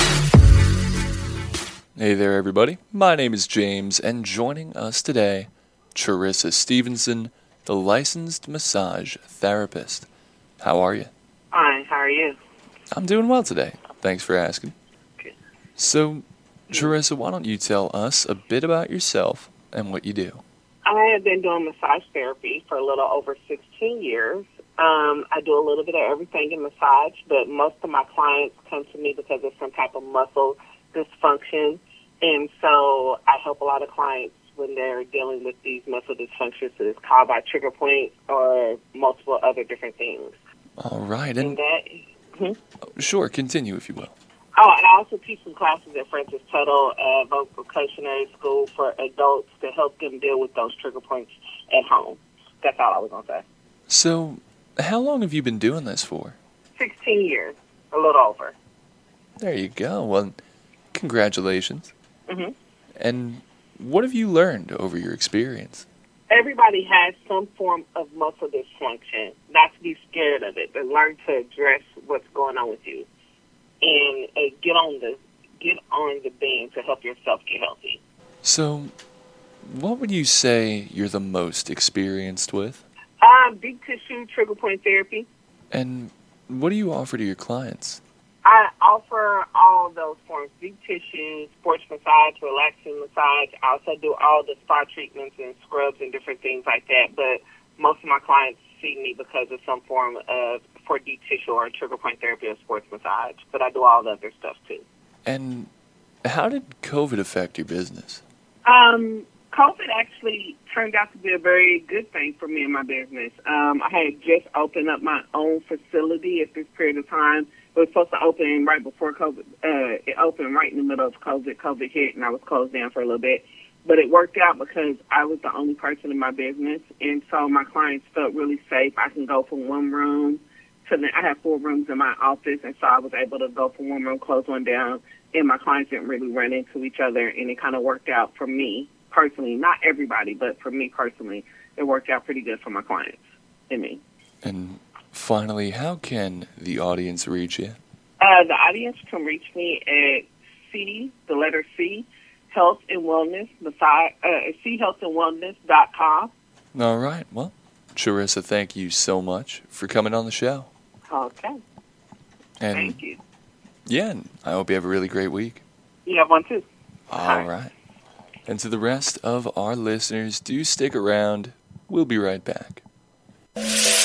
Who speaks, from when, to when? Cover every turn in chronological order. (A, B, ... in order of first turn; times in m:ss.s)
0:02.0-0:10.1 A
0:10.6-0:11.1 A
0:11.5-0:12.4 B
0:12.9-0:14.8 A
0:15.8-0:20.4 A
0:20.8-0:40.4 B
0:40.8-0:41.6 A
0:41.4-0:42.6 B
0:43.0-0:44.1 A
0:44.6-0:53.4 B
0:53.9-0:56.4 A
0:56.8-0:58.6 B
0:59.4-1:00.4 A
1:00.9-1:01.9 A
1:02.3-1:02.5 B
1:03.0-1:05.9 A
1:06.3-1:13.1 B
1:13.8-1:18.0 B
1:18.4-1:18.9 A
1:19.6-1:22.8 A
1:23.2-1:25.3 B
1:25.7-1:28.0 A
1:28.4-1:44.8 B
1:45.2-1:45.7 A
1:46.2-1:48.2 A
1:48.6-2:24.0 B
2:24.4-2:27.8 A
2:28.2-2:36.3 B
2:36.7-2:40.7 A
2:41.1-2:41.6 B
2:42.6-2:43.0 A
2:42.7-2:43.2 B
2:43.9-2:45.6 A
2:46.0-2:47.5 B
2:47.1-2:47.7 A
2:48.5-2:52.8 A